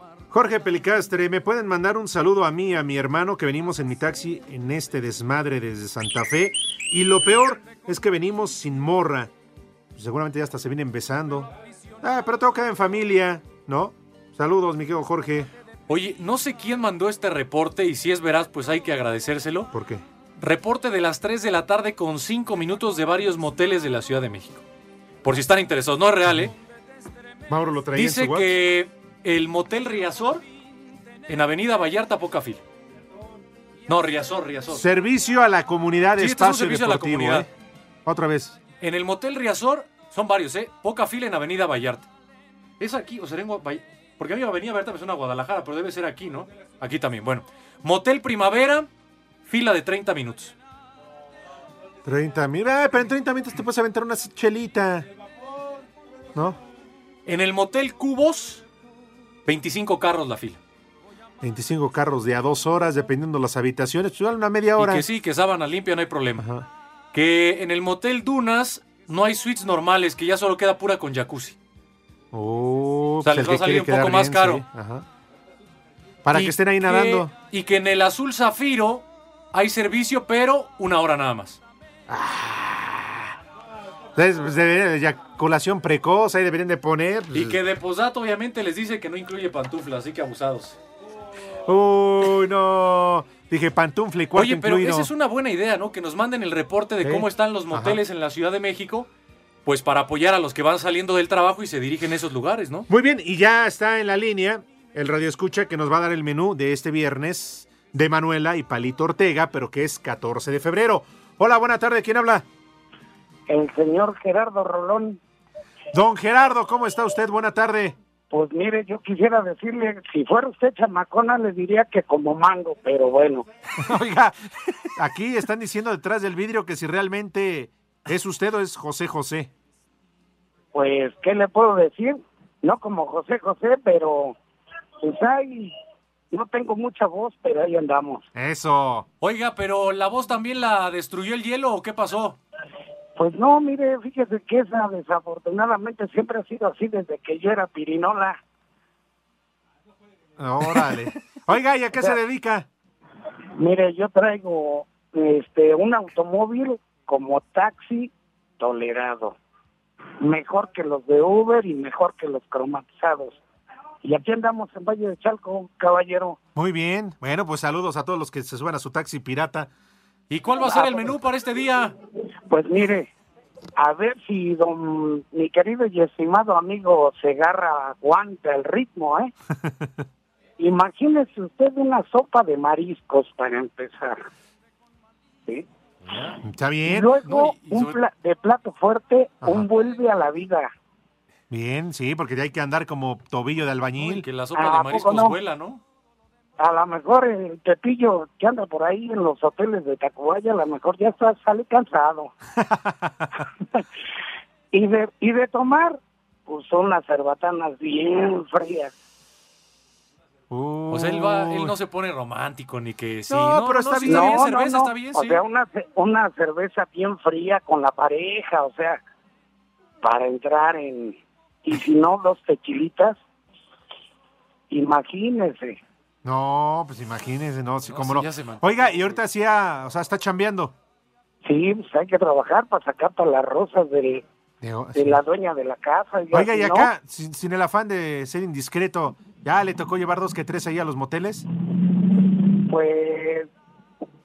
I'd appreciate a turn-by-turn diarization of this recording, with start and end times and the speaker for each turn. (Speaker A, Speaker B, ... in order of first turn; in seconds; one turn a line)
Speaker A: 0.3-9.3
Speaker A: 9.9-11.5
Speaker A: 12.0-15.5
Speaker B: 15.9-19.7
Speaker A: 19.7-20.0
Speaker B: 20.4-24.6
Speaker B: 25.2-26.5
Speaker A: 27.5-28.5
Speaker B: 27.9-30.4
Speaker B: 31.3-32.6
Speaker B: 33.9-34.8
Speaker A: 34.7-37.5
Speaker B: 36.2-37.5
Speaker A: 38.0-38.6
Speaker B: 38.8-42.1
Speaker B: 42.8-48.9
Speaker B: 49.5-50.5
Speaker A: 52.0-55.0
Speaker B: 57.2-58.6
Speaker B: 59.5-60.6
Speaker A: 61.4-65.0
Speaker B: 64.8-66.4
Speaker A: 66.4-66.6
Speaker B: 67.1-71.5
Speaker A: 72.3-75.0
Speaker B: 73.2-74.6
Speaker A: 76.2-77.3
Speaker B: 76.3-81.6
Speaker A: 82.1-83.3
Speaker A: 84.2-87.6
Speaker B: 87.3-90.8
Speaker A: 91.7-95.1
Speaker B: 94.3-99.1
Speaker A: 97.0-98.0
Speaker B: 99.7-102.9
Speaker A: 102.9-112.4
Speaker C: 113.5-115.2
Speaker A: 115.9-117.9
Speaker C: 118.3-123.4
Speaker A: 123.8-124.3
Speaker A: 125.0-129.5
Speaker C: 130.7-134.3
Speaker C: 135.0-135.7
Speaker C: 136.3-138.2
Speaker A: 138.3-139.1
Speaker B: 139.2-142.4
Speaker C: 143.2-148.4
Speaker A: 150.4-152.7
Speaker C: 153.6-159.3
Speaker C: 160.2-163.4
Speaker C: 164.0-166.4
Speaker A: 166.5-169.7
Speaker B: 170.3-171.9
Speaker C: 170.6-171.2
Speaker C: 172.5-173.1
Speaker C: 173.8-179.3
Speaker A: 179.6-180.0
Speaker C: 180.6-184.2
Speaker B: 186.1-186.4
Speaker A: 186.4-187.1
Speaker C: 186.8-190.7
Speaker B: 187.2-188.0
Speaker A: 191.5-194.2
Speaker B: 194.0-195.8
Speaker C: 194.5-195.3
Speaker C: 196.6-202.3
Speaker A: 202.6-203.3
Speaker C: 204.7-208.9
Speaker A: 210.5-211.7
Speaker B: 210.9-215.4
Speaker A: 213.3-214.5
Speaker C: 214.1-219.0
Speaker C: 220.0-223.2
Speaker C: 224.7-225.8
Speaker A: 226.2-230.7
Speaker B: 227.9-229.2
Speaker C: 231.4-234.2
Speaker A: 234.6-235.2
Speaker C: 234.9-236.9
Speaker A: 236.3-241.4
Speaker C: 242.7-243.5